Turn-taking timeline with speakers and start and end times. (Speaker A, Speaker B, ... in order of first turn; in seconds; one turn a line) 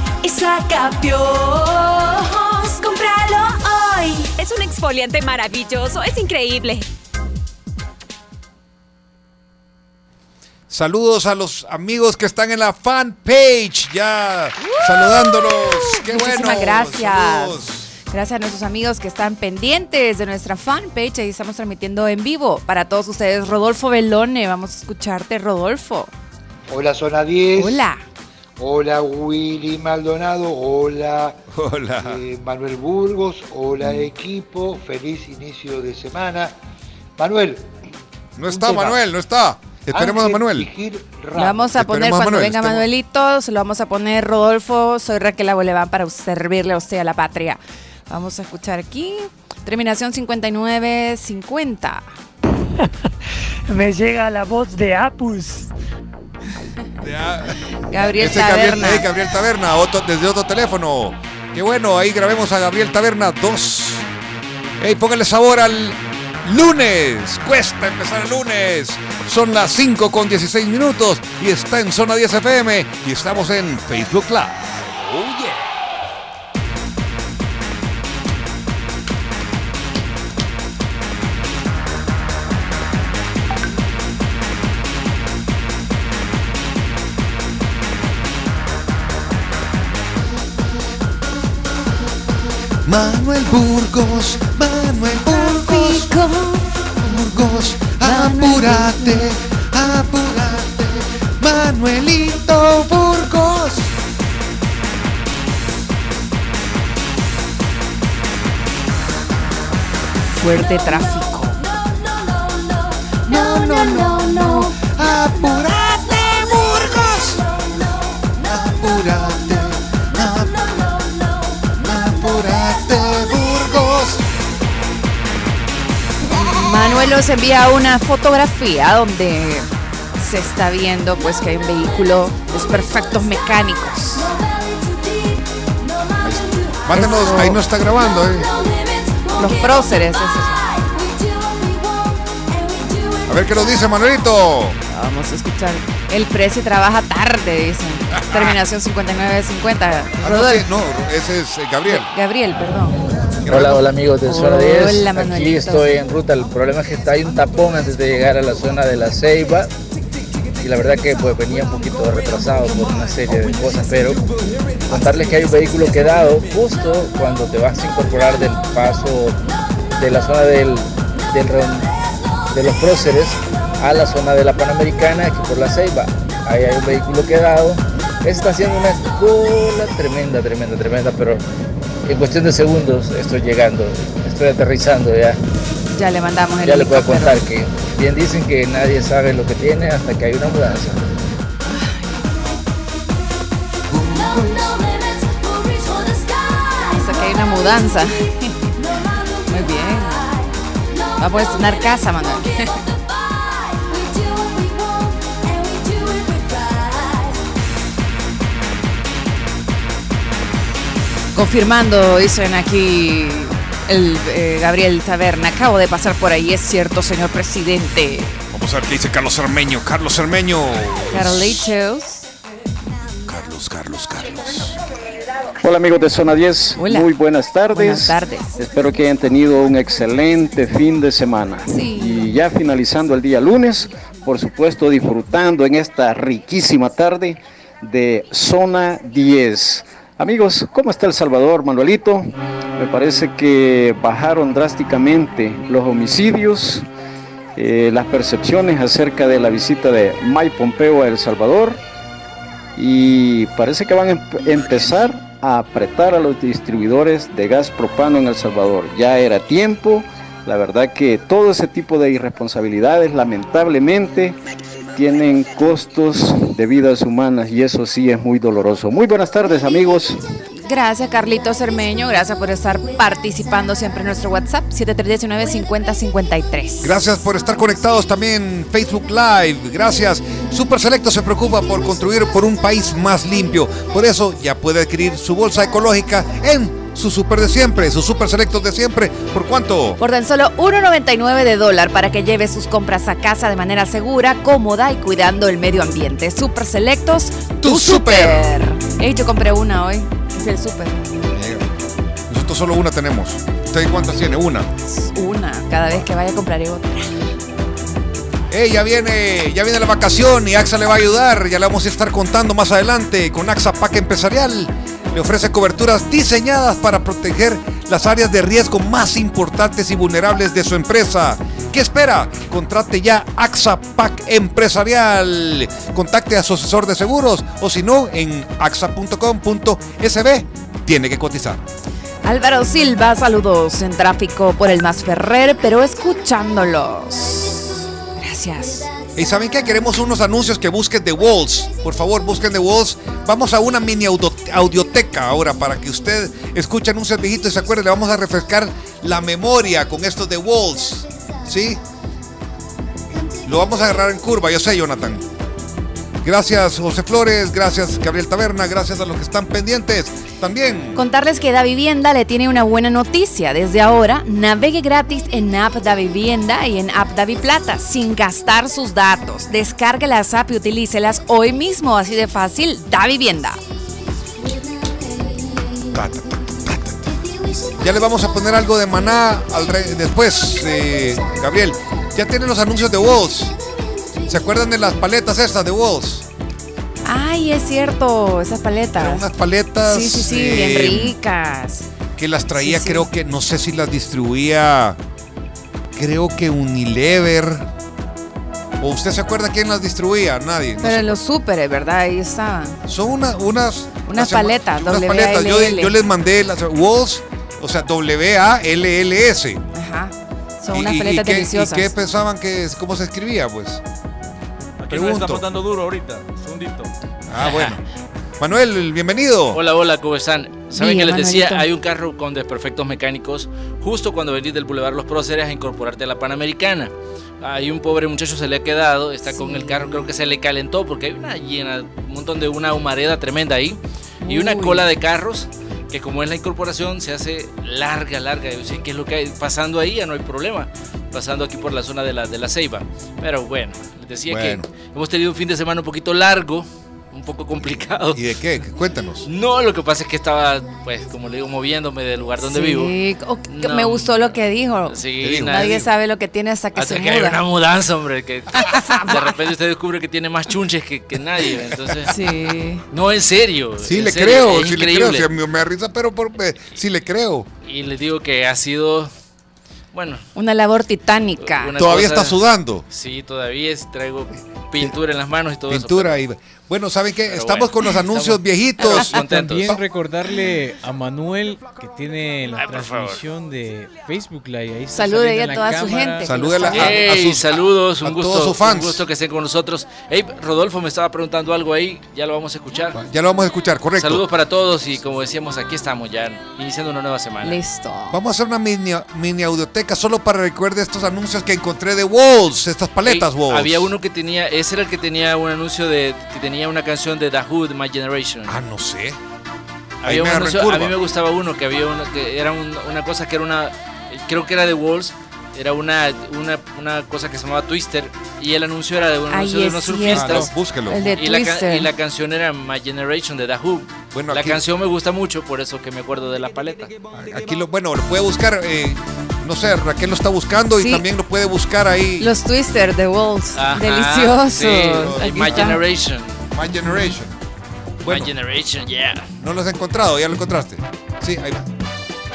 Speaker A: 0.2-4.3
Speaker B: 4.4-6.9
Speaker C: 10.7-17.9
Speaker D: 14.6-26.1
Speaker E: 26.7-27.9
Speaker D: 27.6-28.0
Speaker E: 28.6-31.4
Speaker C: 31.5-32.2
Speaker E: 32.0-36.5
Speaker E: 37.2-37.7
Speaker C: 38.4-40.7
Speaker D: 38.6-38.9
Speaker E: 38.6-38.9
Speaker E: 39.9-41.6
Speaker D: 41.4-52.0
Speaker C: 41.6-42.9
Speaker F: 53.7-55.7
Speaker C: 57.0-64.0
Speaker D: 57.9-59.1
Speaker C: 64.8-75.7
Speaker C: 92.8-96.2
Speaker D: 95.2-96.6
Speaker C: 97.0-104.0
Speaker D: 97.8-99.2
Speaker D: 110.4-111.6
Speaker C: 113.3-117.4
Speaker C: 118.4-120.6
Speaker C: 121.8-124.2
Speaker D: 126.3-134.3
Speaker C: 136.2-138.5
Speaker D: 136.9-137.6
Speaker D: 139.4-140.6
Speaker A: 140.9-141.7
Speaker A: 142.6-143.1
Speaker C: 143.3-144.8
Speaker D: 144.9-150.7
Speaker C: 148.1-148.6
Speaker C: 150.2-152.1
Speaker D: 151.9-153.0
Speaker C: 153.4-153.8
Speaker G: 153.5-159.7
Speaker D: 154.3-156.0
Speaker G: 160.6-164.2
Speaker G: 164.9-169.4
Speaker G: 170.0-171.9
Speaker G: 172.5-181.4
Speaker G: 182.1-185.4
Speaker D: 185.9-187.4
Speaker G: 186.6-191.0
Speaker D: 191.7-192.2
Speaker C: 193.9-194.8
Speaker A: 195.5-196.9
Speaker D: 196.9-198.5
Speaker D: 199.5-200.3
Speaker D: 201.2-202.7
Speaker A: 203.1-207.4
Speaker D: 211.3-218.4
Speaker C: 218.5-221.7
Speaker D: 221.1-222.2
Speaker C: 223.2-224.8
Speaker H: 225.6-246.8
Speaker D: 226.8-227.1
Speaker D: 227.7-228.6
Speaker D: 231.7-232.2
Speaker H: 247.6-251.8
Speaker H: 252.8-264.4
Speaker H: 265.0-270.2
Speaker D: 270.6-277.0
Speaker C: 276.8-290.0
Speaker D: 290.0-301.1
Speaker C: 297.6-298.5
Speaker C: 301.3-301.7
Speaker C: 302.3-304.7
Speaker D: 304.9-307.2
Speaker C: 308.5-331.6
Speaker D: 332.2-338.9
Speaker C: 339.1-351.8
Speaker C: 353.4-355.2
Speaker C: 356.2-361.0
Speaker D: 360.9-373.6
Speaker C: 375.9-377.2
Speaker C: 377.8-383.5
Speaker C: 384.2-386.2
Speaker D: 387.1-389.2
Speaker C: 389.0-391.1
Speaker D: 389.8-391.9
Speaker C: 392.2-395.0
Speaker D: 392.6-393.1
Speaker C: 396.0-397.7
Speaker C: 398.8-401.2
Speaker D: 400.8-402.8
Speaker C: 402.9-409.6
Speaker D: 404.1-405.9
Speaker D: 409.7-411.9
Speaker C: 410.7-413.8
Speaker C: 414.9-415.4
Speaker I: 414.9-416.9
Speaker C: 417.3-417.8
Speaker J: 417.4-417.8
Speaker C: 418.4-419.6
Speaker J: 419.5-448.2
Speaker D: 420.8-421.6
Speaker D: 429.3-430.1
Speaker D: 434.2-434.9
Speaker C: 444.3-444.7
Speaker C: 448.1-449.3
Speaker J: 449.3-452.9
Speaker D: 452.4-455.0
Speaker J: 453.5-455.9
Speaker C: 455.2-455.8
Speaker D: 455.5-457.4
Speaker J: 456.8-462.1
Speaker D: 458.6-459.1
Speaker D: 462.1-462.8
Speaker J: 462.9-465.3
Speaker C: 463.8-467.5
Speaker J: 467.6-469.1
Speaker J: 469.9-470.3
Speaker D: 470.4-471.8
Speaker J: 471.4-476.1
Speaker C: 471.8-472.8
Speaker C: 475.7-479.8
Speaker J: 477.3-479.8
Speaker I: 479.2-486.7
Speaker J: 482.5-483.2
Speaker D: 484.9-487.1
Speaker C: 486.2-489.0
Speaker J: 486.7-493.0
Speaker C: 492.9-494.2
Speaker J: 494.0-497.6
Speaker D: 497.4-498.2
Speaker C: 498.1-503.9
Speaker J: 503.1-508.6
Speaker C: 508.5-509.2
Speaker J: 510.0-520.5
Speaker C: 510.1-510.9
Speaker D: 519.3-521.9
Speaker C: 520.1-521.0
Speaker J: 521.1-526.9
Speaker C: 524.1-524.6
Speaker C: 527.1-532.3
Speaker D: 530.8-531.0
Speaker D: 532.2-535.8
Speaker J: 533.6-536.4
Speaker C: 534.8-535.8
Speaker C: 536.5-537.3
Speaker C: 538.0-538.3
Speaker J: 538.1-539.3
Speaker C: 539.4-541.7